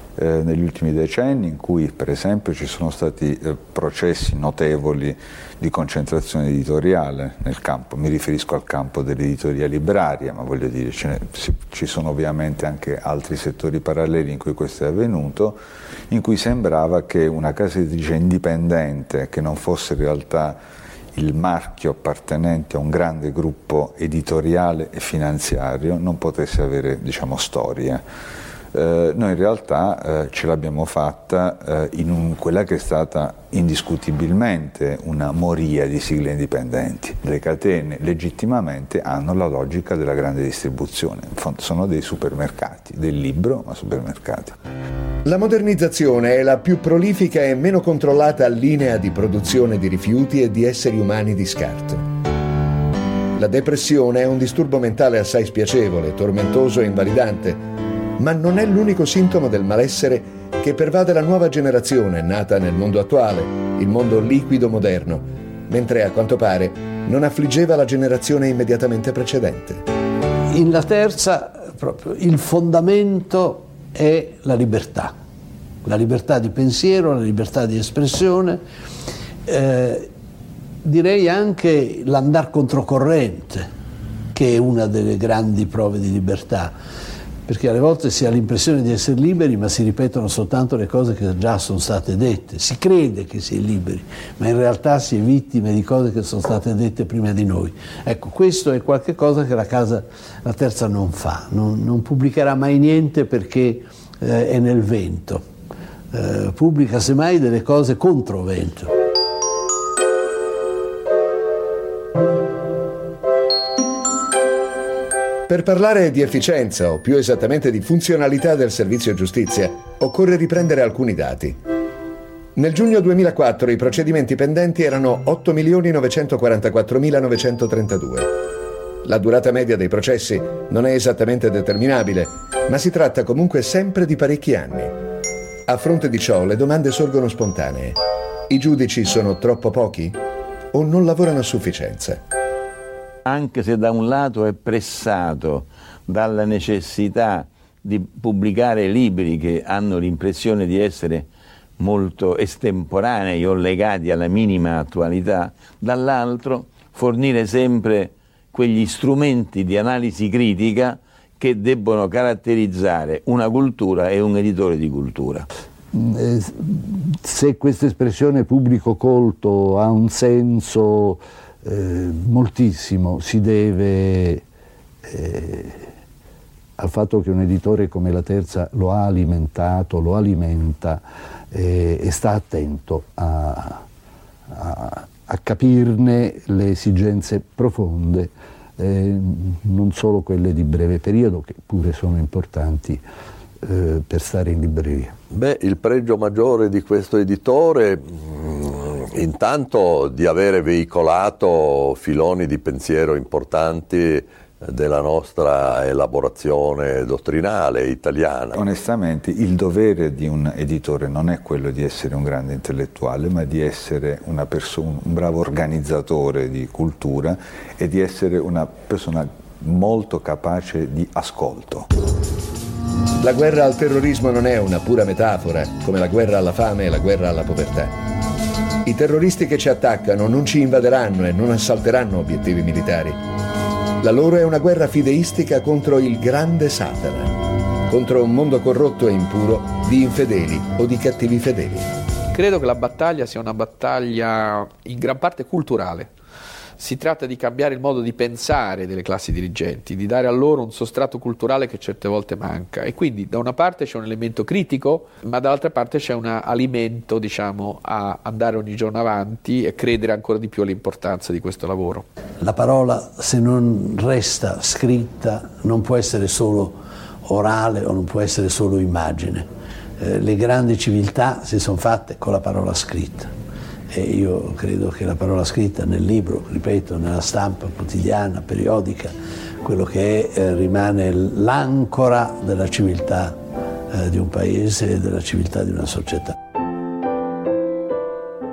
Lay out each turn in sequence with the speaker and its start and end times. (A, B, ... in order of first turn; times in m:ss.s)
0:00.2-0:20.6 A
0:21.1-0:28.0 A
0:28.7-0:44.6 A
0:45.2-0:52.0 B
0:53.4-0:57.6 B
0:58.2-1:09.8 B
1:10.5-1:15.1 C
1:15.8-1:18.6 C
1:19.4-1:20.1 C
1:20.8-1:23.7 C
1:24.3-1:26.7 C
1:27.4-1:45.5 C
1:46.1-1:48.9 C
1:55.5-2:01.6 B
2:02.6-2:08.3 B
2:09.0-2:15.0 B
2:15.7-2:18.0 B
2:18.5-2:20.2 B
2:20.7-2:22.2 B
2:23.2-2:45.4 D
2:45.9-2:54.4 E
2:55.0-2:55.9 E
2:56.8-3:03.8 E
3:04.5-3:13.0 E
3:13.6-3:15.2 E
3:15.3-3:28.6 F
3:28.5-3:41.9 A
3:43.2-3:48.0 B
3:48.8-3:53.2 B
3:54.0-3:57.3 B
3:57.9-4:01.9 B
4:02.3-4:06.1 G
4:06.8-4:22.0 G
4:22.4-4:29.5 C
4:30.0-4:33.3 C
4:33.9-4:43.4 C
4:43.9-4:46.4 C